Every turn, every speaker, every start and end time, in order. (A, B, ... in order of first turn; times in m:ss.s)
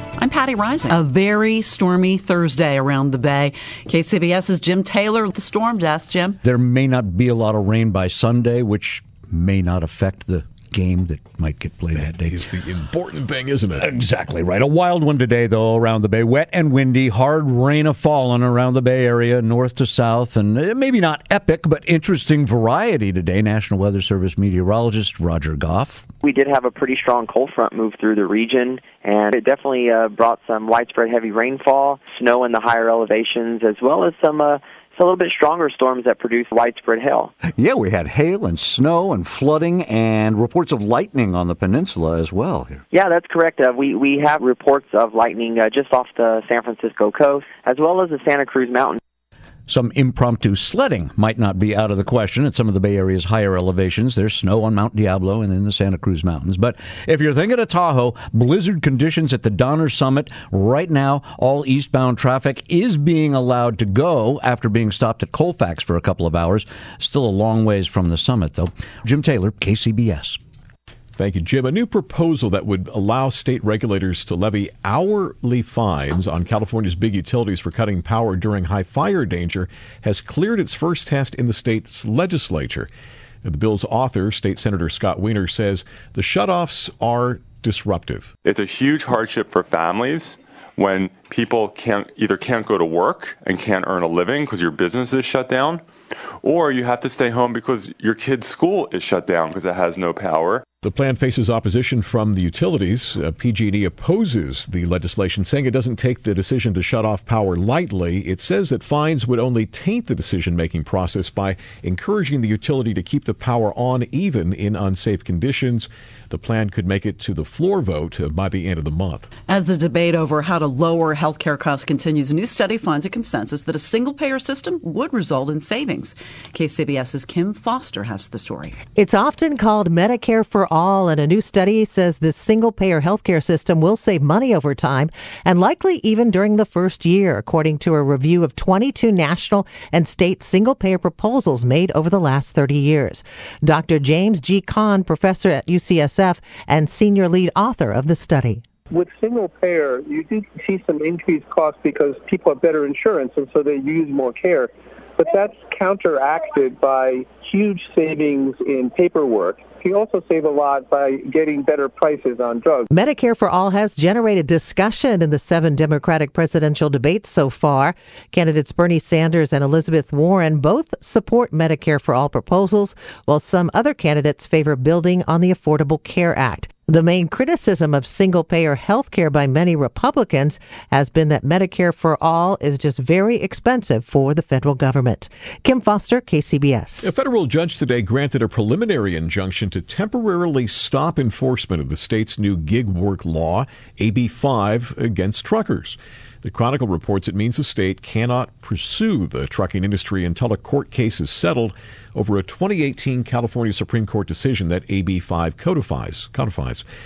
0:00.2-0:06.4 A
0:06.4-0:12.4 B
0:11.9-0:13.9 C
0:13.7-0:26.1 B
0:26.2-0:37.3 D
0:37.6-0:42.8 B
0:42.9-0:49.0 D
0:49.7-1:10.4 B
1:11.2-1:22.9 C
1:23.4-1:28.3 C
1:28.4-1:35.8 E
1:36.4-1:40.6 E
1:40.8-1:59.3 C
1:59.5-2:08.7 A
2:09.0-2:28.6 F
2:28.9-2:42.9 G
2:42.9-3:07.1 F
3:07.0-3:26.8 C